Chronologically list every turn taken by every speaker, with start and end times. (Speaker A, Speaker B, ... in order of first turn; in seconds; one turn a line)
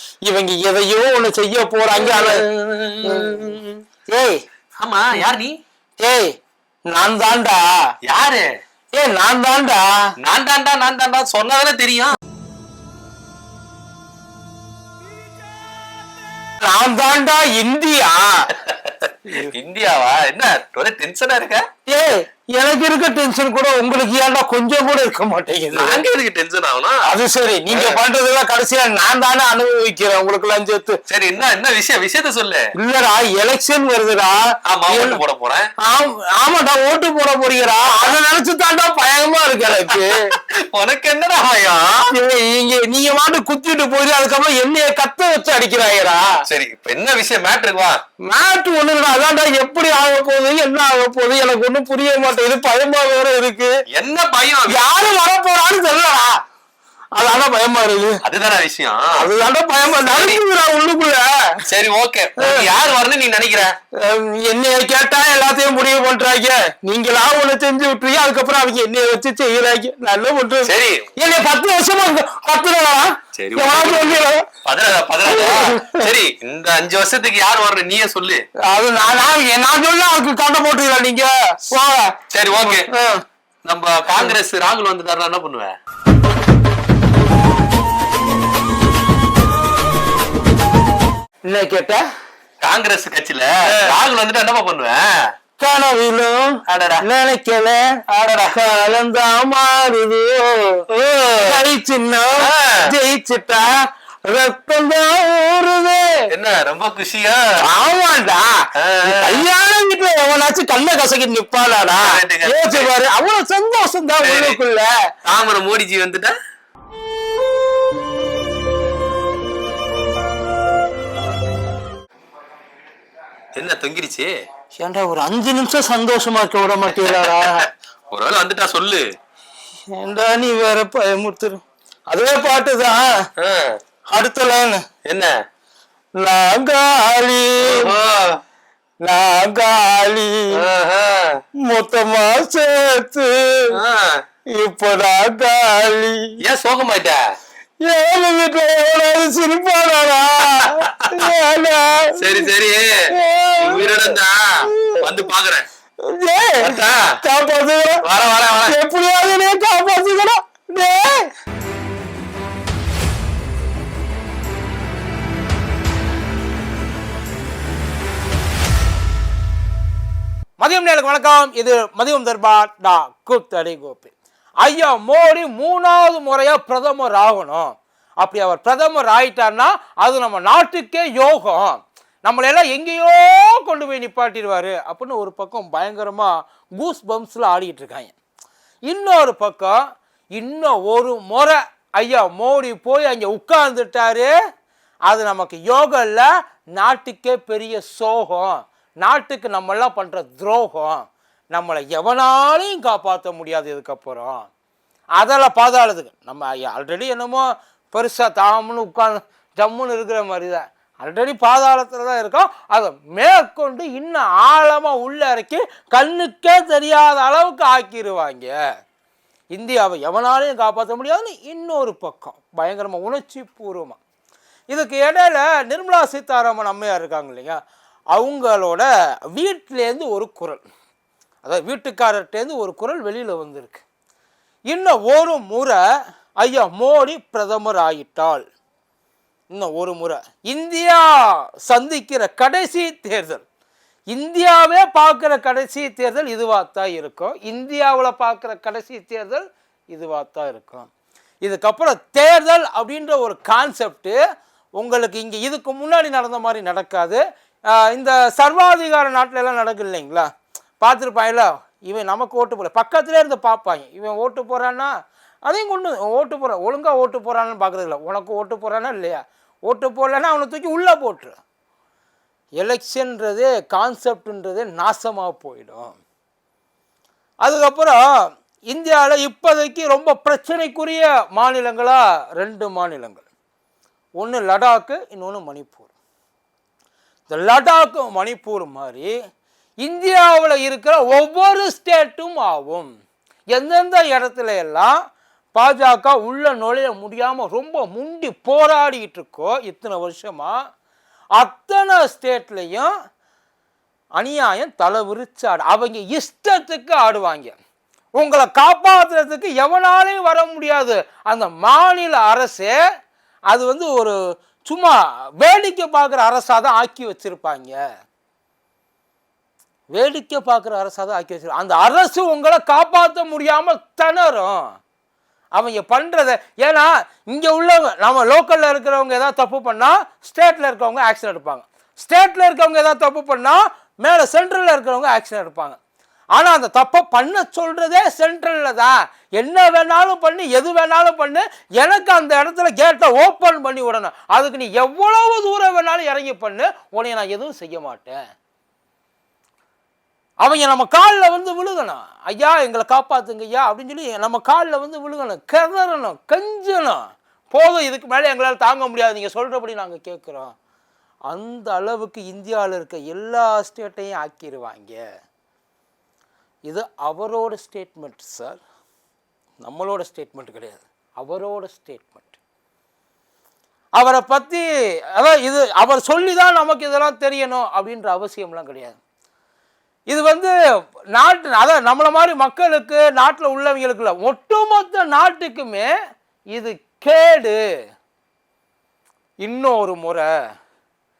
Speaker A: 0.2-2.4
Speaker B: 1.9-3.7
Speaker A: 3.0-3.5
Speaker A: 4.1-4.4
Speaker B: 4.8-5.5
Speaker A: 6.0-6.3
Speaker A: 6.9-7.7
Speaker B: 8.1-8.4
Speaker A: 8.9-9.9
Speaker B: 10.2-12.2
Speaker A: 16.6-18.5
Speaker B: 18.5-21.6
Speaker A: 21.9-26.0
Speaker B: 25.7-27.0
Speaker A: 27.1-31.0
Speaker B: 27.7-28.0
Speaker B: 31.1-32.6
Speaker A: 32.8-35.2
Speaker B: 34.6-35.7
Speaker A: 35.8-40.3
Speaker B: 40.7-42.0
Speaker A: 42.1-46.4
Speaker B: 46.5-48.0
Speaker A: 48.2-53.7
Speaker B: 53.9-54.8
Speaker A: 54.7-56.4
Speaker A: 57.1-58.2
Speaker B: 58.2-59.3
Speaker A: 59.1-61.6
Speaker B: 60.0-60.4
Speaker B: 61.7-63.7
Speaker A: 62.4-62.7
Speaker A: 64.0-74.5
Speaker B: 70.6-71.1
Speaker B: 73.3-78.4
Speaker A: 75.3-76.1
Speaker A: 78.7-83.2
Speaker B: 82.3-82.9
Speaker B: 83.6-85.7
Speaker A: 91.5-92.0
Speaker B: 92.6-95.0
Speaker A: 95.6-100.8
Speaker B: 96.7-97.0
Speaker B: 100.9-101.6
Speaker A: 101.4-103.7
Speaker B: 102.4-102.9
Speaker A: 104.3-106.2
Speaker B: 106.3-107.4
Speaker A: 107.6-114.9
Speaker B: 108.8-109.5
Speaker B: 111.9-112.9
Speaker B: 114.2-114.6
Speaker B: 115.2-116.3
Speaker B: 123.5-124.3
Speaker A: 124.8-127.7
Speaker B: 127.0-127.5
Speaker B: 128.1-129.0
Speaker A: 129.9-133.1
Speaker B: 133.4-133.8
Speaker A: 134.1-134.8
Speaker B: 135.0-135.3
Speaker A: 136.2-137.9
Speaker B: 137.6-138.4
Speaker A: 139.0-140.5
Speaker B: 140.5-141.4
Speaker A: 141.6-143.7
Speaker B: 143.8-144.2
Speaker A: 144.5-146.4
Speaker B: 146.4-147.3
Speaker A: 147.8-152.5
Speaker B: 150.6-151.1
Speaker B: 152.2-153.1
Speaker A: 153.1-155.2
Speaker B: 153.6-155.7
Speaker A: 156.0-158.0
Speaker B: 156.6-157.2
Speaker B: 158.0-158.8
Speaker A: 158.6-161.3
Speaker A: 170.6-188.1
Speaker A: 188.9-189.8
Speaker A: 190.3-194.3
Speaker A: 195.1-204.5
Speaker A: 205.2-218.5
Speaker A: 219.5-224.0
Speaker A: 224.7-227.6
Speaker A: 228.1-230.6
Speaker A: 231.4-233.8
Speaker A: 234.7-235.8
Speaker A: 236.4-238.4
Speaker A: 239.5-243.4
Speaker A: 244.1-250.9
Speaker A: 251.4-254.2
Speaker A: 254.8-260.3
Speaker A: 260.8-264.9
Speaker A: 265.5-271.4
Speaker A: 272.6-276.0
Speaker A: 277.4-278.0
Speaker A: 278.7-283.2
Speaker A: 284.2-285.9
Speaker A: 287.3-289.1
Speaker A: 289.8-292.9
Speaker A: 293.5-295.0
Speaker A: 295.5-300.6
Speaker A: 301.4-302.9
Speaker A: 304.2-307.5
Speaker A: 308.2-312.8
Speaker A: 313.5-317.8
Speaker A: 319.9-324.7
Speaker A: 325.5-335.8
Speaker A: 336.3-348.2
Speaker A: 350.4-360.5
Speaker A: 361.3-365.0
Speaker A: 366.7-368.6
Speaker A: 369.6-372.4
Speaker A: 374.0-374.6
Speaker A: 375.2-379.0
Speaker A: 380.1-380.5
Speaker A: 381.1-385.9
Speaker A: 386.5-387.6
Speaker A: 389.4-390.3